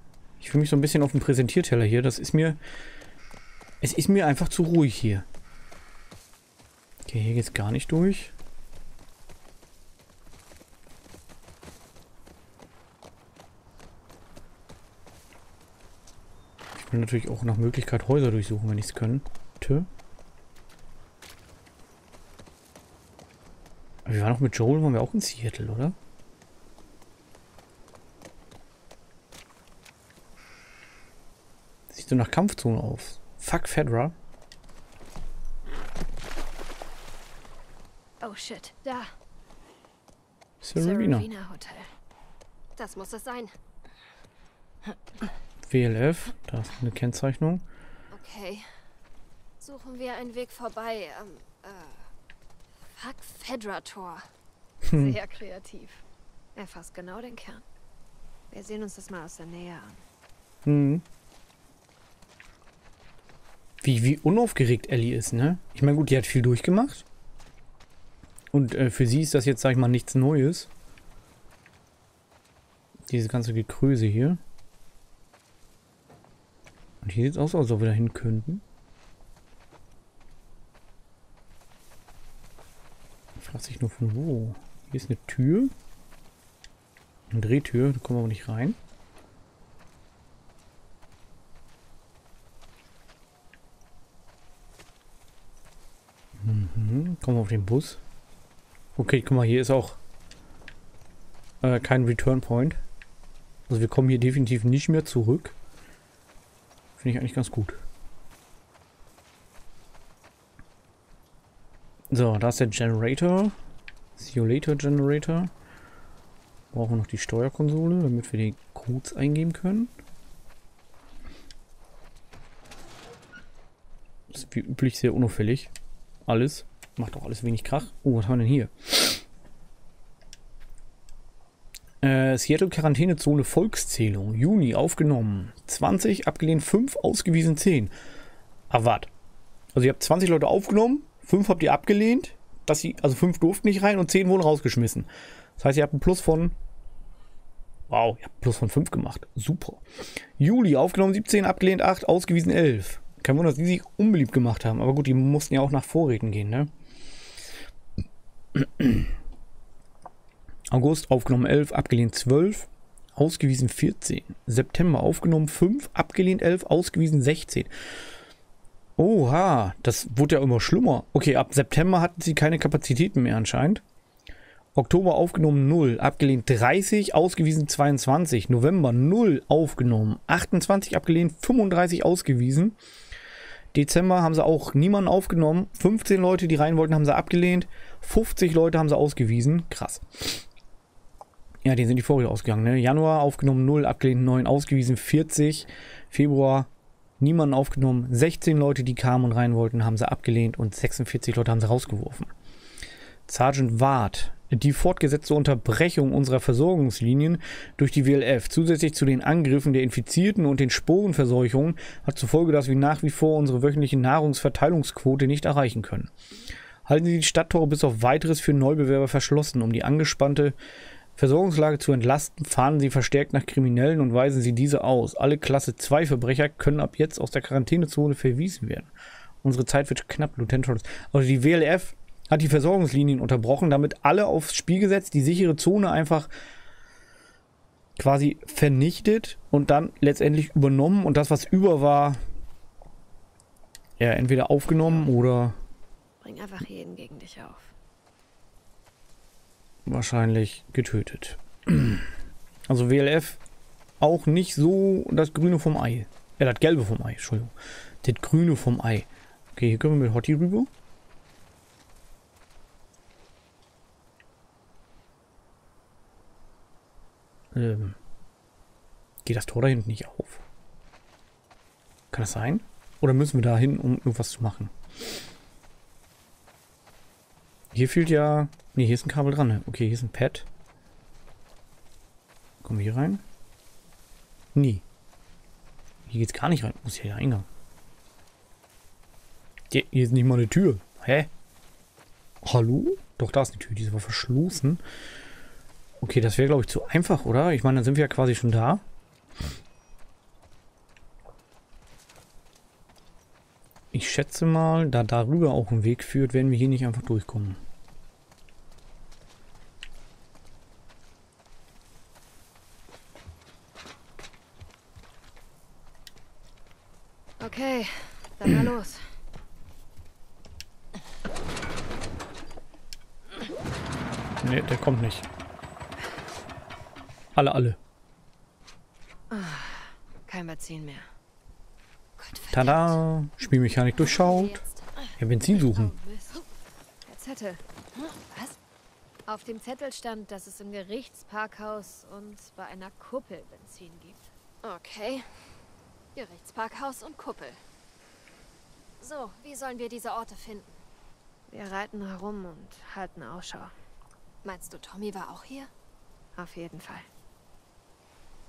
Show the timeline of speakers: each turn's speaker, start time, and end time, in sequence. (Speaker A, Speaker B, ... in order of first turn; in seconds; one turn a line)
Speaker A: 0.4-2.6
Speaker A: 3.8-5.2
Speaker A: 7.0-8.3
Speaker A: 16.7-19.9
Speaker A: 24.1-25.9
Speaker A: 31.9-34.1
Speaker B: 38.2-39.1
Speaker A: 40.6-41.3
Speaker B: 40.7-41.9
Speaker C: 42.8-43.5
Speaker A: 45.6-47.6
Speaker C: 48.1-48.8
Speaker C: 49.6-52.1
Speaker C: 52.8-54.3
Speaker A: 54.8-55.2
Speaker B: 54.9-56.0
Speaker B: 56.5-57.6
Speaker B: 58.5-60.0
Speaker A: 60.6-61.0
Speaker A: 63.8-67.0
Speaker A: 68.5-70.7
Speaker A: 73.1-74.4
Speaker A: 77.0-78.6
Speaker A: 83.3-85.7
Speaker A: 87.3-88.8
Speaker A: 96.4-98.0
Speaker A: 99.0-100.0
Speaker A: 101.6-102.8
Speaker A: 103.7-105.5
Speaker A: 107.0-107.8
Speaker A: 112.1-113.5
Speaker A: 114.2-115.5
Speaker A: 116.7-119.9
Speaker A: 124.3-125.7
Speaker A: 126.3-129.2
Speaker A: 132.0-137.9
Speaker A: 138.7-139.1
Speaker A: 139.7-146.6
Speaker A: 147.9-149.8
Speaker A: 150.4-156.7
Speaker A: 158.5-159.1
Speaker A: 160.7-167.7
Speaker A: 169.0-173.8
Speaker A: 174.7-182.8
Speaker A: 183.7-190.4
Speaker A: 191.6-196.7
Speaker A: 197.2-202.3
Speaker A: 203.3-216.1
Speaker A: 216.8-220.5
Speaker A: 221.2-228.9
Speaker A: 229.4-236.3
Speaker A: 238.0-242.2
Speaker A: 244.0-245.6
Speaker B: 246.2-247.7
Speaker A: 249.8-252.1
Speaker A: 252.7-253.4
Speaker A: 254.0-260.7
Speaker A: 267.5-267.9
Speaker A: 269.2-270.4
Speaker A: 272.1-274.7
Speaker A: 277.7-280.5
Speaker A: 282.6-283.2
Speaker A: 284.5-284.8
Speaker A: 286.1-287.5
Speaker A: 289.7-291.3
Speaker A: 292.4-294.8
Speaker A: 296.0-298.8
Speaker A: 303.9-307.6
Speaker B: 317.4-319.1
Speaker A: 324.4-325.2
Speaker A: 327.4-327.8
Speaker B: 329.3-331.1
Speaker C: 332.2-333.0
Speaker A: 332.5-334.6
Speaker C: 334.0-334.9
Speaker A: 335.2-335.9
Speaker B: 335.7-336.4
Speaker B: 337.1-337.6
Speaker B: 338.3-338.6
Speaker B: 339.3-344.3
Speaker C: 344.6-347.6
Speaker C: 349.0-350.8
Speaker B: 351.5-353.7
Speaker C: 354.4-355.7
Speaker B: 356.3-357.1